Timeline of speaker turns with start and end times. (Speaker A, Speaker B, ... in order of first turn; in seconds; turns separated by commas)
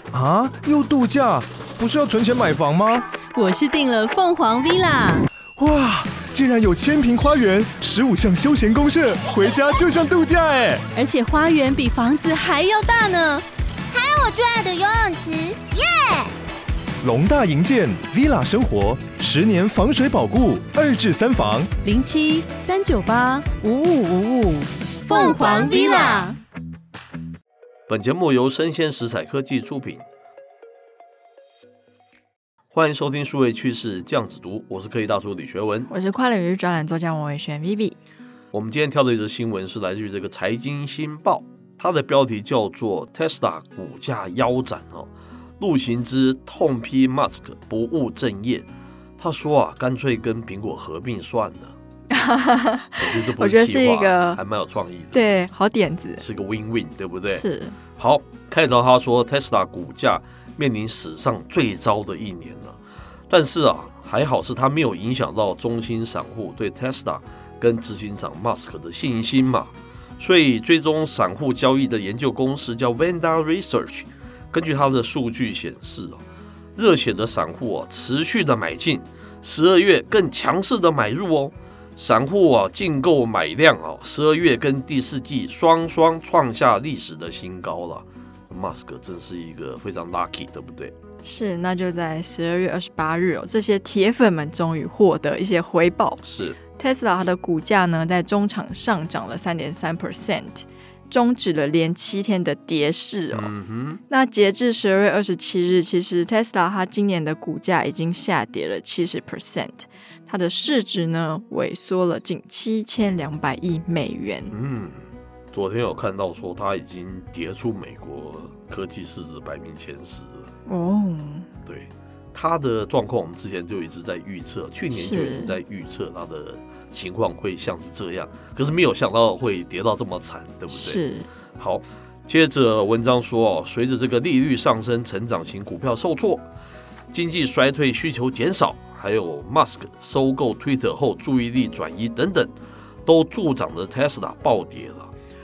Speaker A: 0.1-3.0, Speaker B: 3.3-5.3, Speaker A: 5.6-10.8, Speaker B: 10.9-13.4, Speaker C: 13.9-16.3, Speaker A: 17.0-21.7, Speaker B: 21.8-26.4, Speaker C: 25.1-26.3, Speaker D: 27.9-30.0, Speaker D: 32.7-35.9, Speaker E: 35.9-38.0, Speaker D: 38.5-45.1, Speaker D: 45.6-48.6, Speaker D: 49.2-51.7, Speaker E: 52.1-54.4, Speaker D: 53.0-55.2, Speaker E: 55.1-56.2, Speaker D: 56.2-57.4, Speaker E: 57.3-57.8, Speaker D: 58.0-62.8, Speaker D: 63.3-76.2, Speaker D: 76.8-90.9, Speaker E: 91.2-96.2, Speaker D: 96.2-96.6, Speaker E: 96.8-103.5, Speaker D: 103.3-104.0, Speaker E: 104.1-114.5, Speaker D: 114.5-120.5, Speaker E: 120.7-121.5, Speaker D: 121.6-131.0, Speaker E: 124.9-125.5, Speaker E: 130.7-131.3, Speaker D: 131.6-136.4, Speaker D: 137.1-142.5, Speaker D: 143.1-145.1